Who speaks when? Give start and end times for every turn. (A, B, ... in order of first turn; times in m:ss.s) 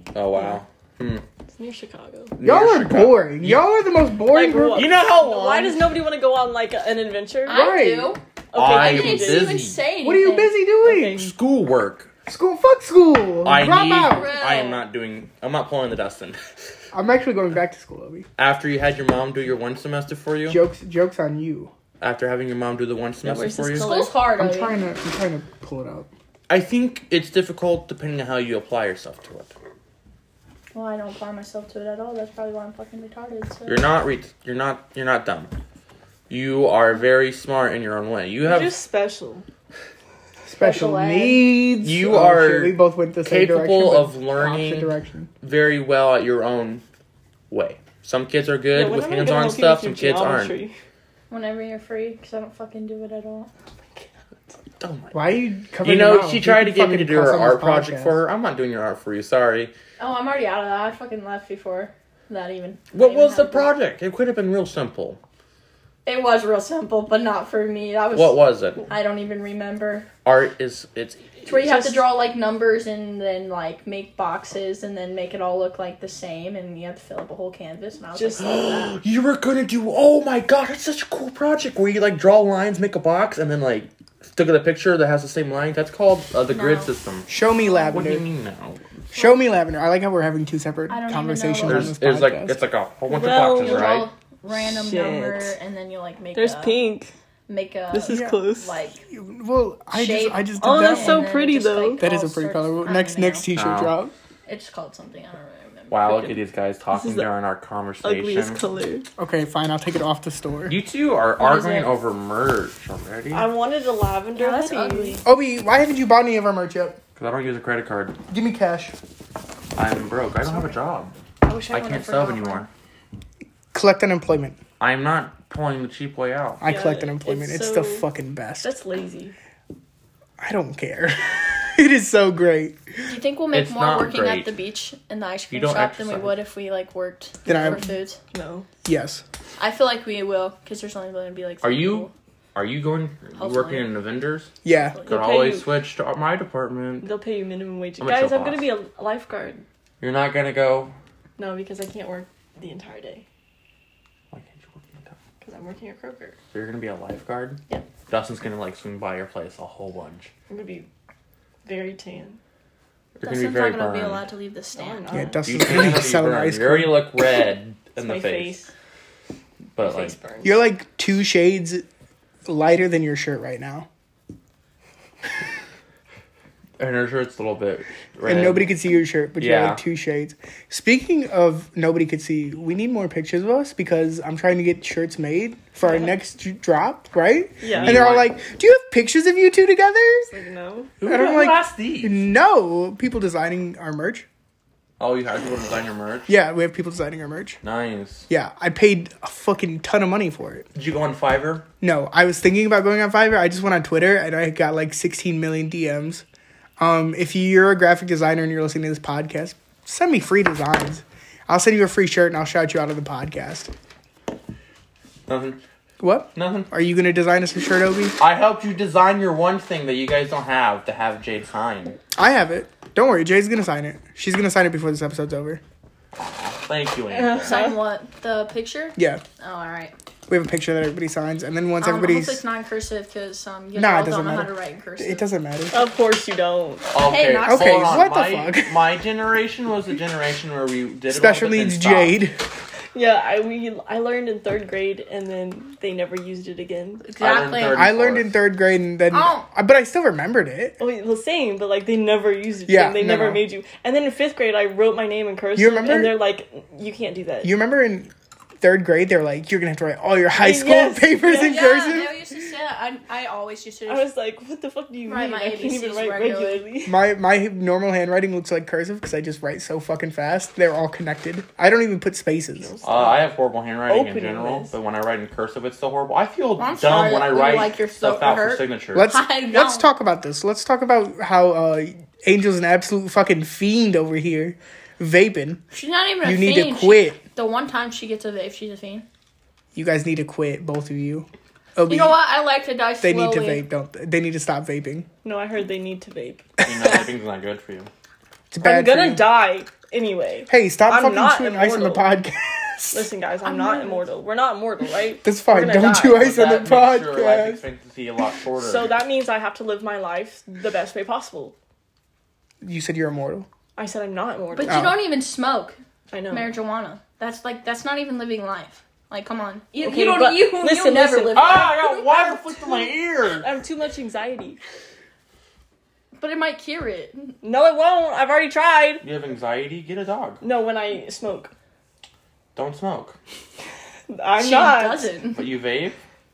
0:00.1-0:01.2 A
0:01.5-0:02.4 B
0:02.4-0:03.7 A
0:02.4-0:04.9 C
0:04.3-0:07.8 B
0:04.7-0:06.0 A
0:07.5-0:10.5 D
0:07.5-0:08.2 C
0:08.5-0:09.5 B
0:08.5-0:09.8 A
0:10.0-0:11.2 C
0:10.8-0:11.3 B
0:11.1-0:12.1 A
0:12.3-0:14.3 C
0:13.4-0:16.4 A
0:14.0-0:14.8 D
0:16.9-0:18.3 C
0:18.4-0:20.6 A
0:20.5-0:21.7 C
0:22.0-0:24.0 A
0:23.2-0:24.2 B
0:23.8-0:24.8 D
0:24.4-0:26.1 C
0:26.5-0:29.5 A
0:30.7-0:33.9 D
0:33.7-0:35.5 A
0:36.3-0:38.8 A
0:38.4-0:39.5 B
0:40.5-0:45.3 C
0:40.6-0:41.5 D
0:41.8-0:46.8 A
0:47.5-0:50.6 A
0:48.7-0:50.8 B
0:51.3-0:53.5 D
0:54.8-0:59.7 A
0:55.1-0:58.2 C
1:00.0-1:03.7 D
1:02.9-1:05.2 A
1:06.0-1:10.1 D
1:08.1-1:08.9 A
1:10.2-1:11.2 A
1:11.4-1:18.9 D
1:11.5-1:12.1 B
1:18.2-1:18.9 B
1:18.4-1:27.3 A
1:26.5-1:27.9 D
1:27.3-1:28.2 C
1:27.8-1:28.8 A
1:29.1-1:32.6 C
1:29.1-1:29.4 D
1:30.9-1:31.9 D
1:31.6-1:34.1 A
1:33.1-1:35.6 B
1:33.6-1:36.8 D
1:36.4-1:37.1 B
1:37.5-1:39.0 D
1:37.9-1:38.7 B
1:38.1-1:38.4 C
1:39.0-1:41.3 C
1:39.9-1:43.4 D
1:40.6-1:42.0 B
1:42.0-1:44.1 C
1:43.5-1:43.9 A
1:44.5-1:46.2 D
1:45.9-1:48.6 A
1:46.1-1:46.4 B
1:46.9-1:47.3 B
1:48.0-1:49.1 B
1:49.2-1:50.8 C
1:50.7-1:53.5 A
1:51.4-1:52.0 D
1:53.3-1:55.2 B
1:54.4-1:55.2 D
1:55.2-1:57.0 C
1:57.2-1:58.2 A
1:58.3-1:59.0 C
1:59.8-2:01.2 A
2:01.4-2:02.7 D
2:01.7-2:02.7 A
2:03.7-2:04.6 C
2:04.8-2:06.6 A
2:06.6-2:08.7 C
2:06.6-2:08.1 B
2:08.6-2:09.4 B
2:10.4-2:12.8 C
2:13.1-2:18.2 D
2:13.5-2:14.5 A
2:15.5-2:16.4 A
2:17.5-2:17.9 C
2:17.7-2:18.7 B
2:18.8-2:19.2 C
2:19.6-2:22.1 D
2:21.6-2:24.5 A
2:23.4-2:23.9 D
2:24.6-2:25.0 C
2:25.0-2:25.7 B
2:25.1-2:27.1 A
2:27.0-2:29.6 B
2:28.0-2:28.7 A
2:30.0-2:30.9 A
2:31.4-2:33.2 B
2:34.3-2:35.2 A
2:35.4-2:36.4 B
2:36.5-2:40.3 A
2:40.5-2:40.9 B
2:41.6-2:42.4 B
2:43.2-2:44.2 A
2:43.2-2:45.4 D
2:44.8-2:45.7 B
2:45.1-2:47.0 C
2:45.4-2:48.6 A
2:48.0-2:48.7 B
2:49.8-2:50.2 A
2:49.8-2:50.6 B
2:50.4-2:51.9 C
2:52.4-2:53.9 C
2:56.8-2:58.7 A
2:58.2-3:10.3 C
2:59.4-2:59.8 A
3:05.9-3:06.1 B
3:07.6-3:08.0 B
3:07.7-3:08.3 A
3:10.3-3:11.0 B
3:11.0-3:14.3 C
3:11.0-3:12.2 A
3:15.0-3:16.3 A
3:16.3-3:17.6 C
3:17.6-3:18.3 A
3:18.3-3:20.7 C
3:20.8-3:21.7 A
3:21.8-3:26.2 C
3:26.8-3:33.7 C
3:35.3-3:35.6 A
3:36.0-3:38.2 C
3:36.4-3:36.7 A
3:38.2-3:42.0 A
3:42.2-3:45.6 C
3:46.2-3:47.7 A
3:47.1-3:47.8 B
3:47.4-3:49.9 D
3:49.0-3:49.2 C
3:50.3-3:52.4 C
3:51.8-3:55.3 D
3:53.8-3:55.8 C
3:55.7-3:56.9 B
3:56.9-4:02.2 A
3:57.0-3:58.0 D
3:57.4-3:58.8 C
4:01.1-4:02.4 C
4:02.9-4:07.0 B
4:07.0-4:07.9 D
4:07.2-4:08.4 A
4:07.7-4:10.8 C
4:09.1-4:09.4 D
4:10.8-4:17.6 B
4:12.7-4:13.4 C
4:15.6-4:16.2 C
4:17.4-4:22.2 C
4:20.3-4:21.8 B
4:21.4-4:24.1 D
4:23.9-4:27.0 B
4:25.1-4:26.7 D
4:26.8-4:32.7 C
4:32.6-4:33.3 B
4:32.8-4:39.1 A
4:33.9-4:34.7 B
4:36.6-4:39.9 D
4:38.9-4:45.6 C
4:45.7-4:49.0 D
4:46.2-4:47.2 C
4:49.8-4:52.2 C
4:51.9-4:53.6 D
4:53.0-4:55.1 C
4:55.2-4:57.1 B
4:56.6-4:57.9 A
4:58.5-4:59.4 C
4:58.6-5:02.1 B
5:00.5-5:03.1 C
5:02.9-5:06.2 B
5:03.4-5:04.1 D
5:05.2-5:07.6 C
5:06.1-5:08.9 A
5:08.6-5:11.6 B
5:12.6-5:13.5 C
5:13.8-5:14.9 B
5:14.5-5:15.8 D
5:14.7-5:15.0 C
5:16.1-5:16.6 B
5:16.3-5:22.3 D
5:19.8-5:22.3 B
5:21.3-5:23.5 A
5:23.3-5:24.6 B
5:26.2-5:27.3 D
5:27.4-5:29.0 B
5:29.0-5:30.4 A
5:30.4-5:31.5 B
5:32.6-5:33.2 A
5:34.1-5:35.1 B
5:34.4-5:35.4 D
5:35.4-5:36.0 A